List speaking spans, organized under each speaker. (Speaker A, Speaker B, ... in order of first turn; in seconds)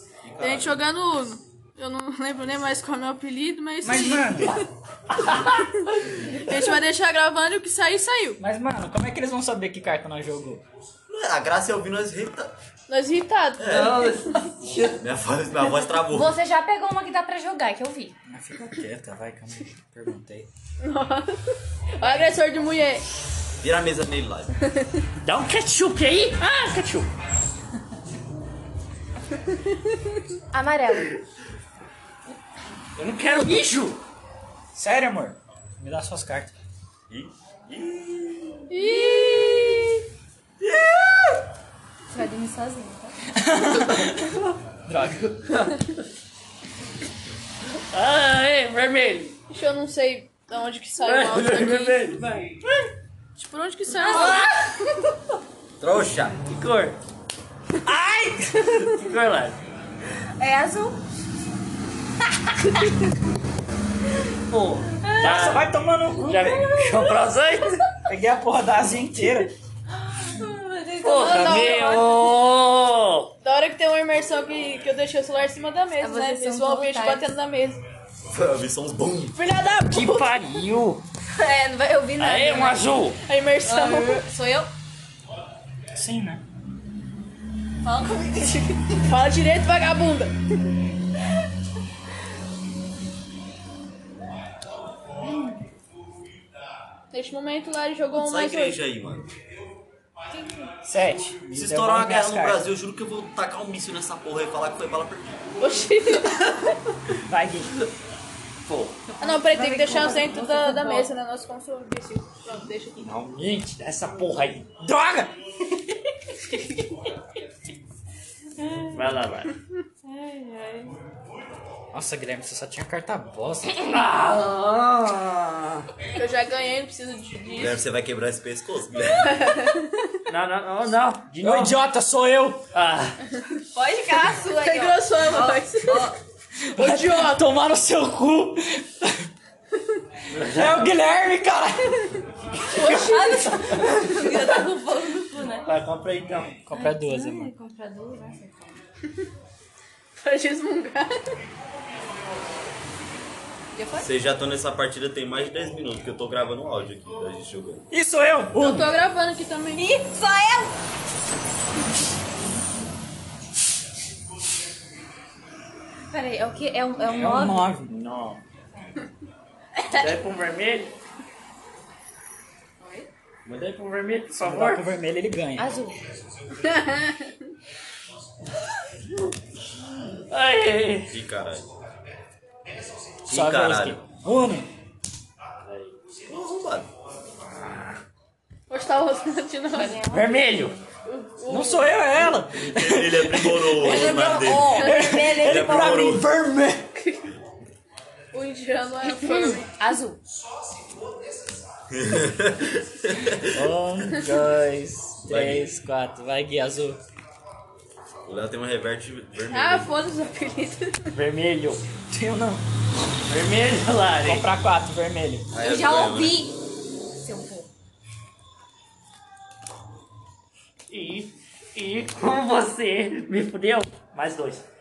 Speaker A: 0.2-0.8, 11.1-12.5, 13.6-14.0, 15.0-16.3, 23.6-24.5, 37.1-38.6, 55.8-56.4, 78.2-79.4, 98.1-99.3, 101.5-105.5, 127.5-129.7, 154.0-157.9, 181.1-181.7, 183.3-184.0, 186.3-186.9, 192.6-196.3, 201.9-203.7, 205.3-205.7, 208.3-210.1, 215.5-216.4
Speaker B: 0.4-4.7, 5.8-8.4, 12.9-14.4, 20.8-23.1, 24.6-25.0, 29.5-30.2, 38.7-40.0, 49.5-52.0, 53.4-54.5, 71.2-72.1, 73.4-77.8, 79.4-80.2, 83.2-84.3, 88.5-90.6, 97.1-98.8, 105.6-106.8, 109.2-113.1, 126.2-127.8, 129.2-130.2, 134.1-136.1, 136.8-137.4, 142.7-143.8, 150.2-151.4, 158.6-159.8, 176.5-177.3, 188.7-190.1, 191.1-191.9, 197.0-197.3, 198.3-199.7, 209.5-211.2
Speaker C: 3.8-4.6, 8.4-10.6, 18.3-20.5, 34.8-36.5, 43.3-45.4, 57.9-58.7, 65.2-66.8, 68.0-69.5, 86.0-86.4, 100.8-102.7, 107.2-107.7, 113.0-113.4, 114.8-115.3, 121.9-124.0, 131.4-132.6, 136.6-139.3, 140.4-142.2, 146.7-147.5, 157.9-158.9, 167.1-167.9, 174.4-175.7, 183.3-184.7, 191.5-197.0, 203.5-207.0, 212.1-212.6, 214.2-215.5
Speaker D: 5.3-6.0, 13.7-15.0, 25.2-27.1, 33.0-34.0, 45.5-45.8, 47.9-49.4, 51.0-52.6, 56.5-57.0, 58.8-59.6, 64.5-65.7, 66.2-67.8, 71.0-73.3, 79.9-81.0, 82.2-83.2, 108.7-109.0, 113.2-114.7, 118.9-119.5, 123.9-125.8, 130.3-131.8, 132.7-133.2, 140.3-140.8, 145.6-146.6, 167.9-168.4, 169.9-170.9, 173.5-174.8, 180.3-181.1, 185.6-185.9, 190.1-190.8, 211.2-211.8, 213.3-214.5, 220.9-224.7
Speaker E: 16.1-18.1, 30.5-31.1, 38.9-39.9, 42.1-43.2, 53.9-55.0, 60.4-61.0, 65.0-65.6, 66.5-67.0, 69.9-72.1, 76.0-77.3, 81.3-82.9, 83.6-84.7, 87.8-88.7, 95.2-95.6, 100.3-100.7, 109.2-111.1, 118.6-119.0, 120.1-120.9, 133.7-136.2, 142.8-145.7, 146.7-148.8, 153.8-154.1, 159.7-160.7, 166.1-167.7, 169.8-170.2, 172.8-173.1, 175.6-176.0, 189.7-190.8, 193.8-196.0, 199.0-200.2, 215.6-216.6, 217.2-217.7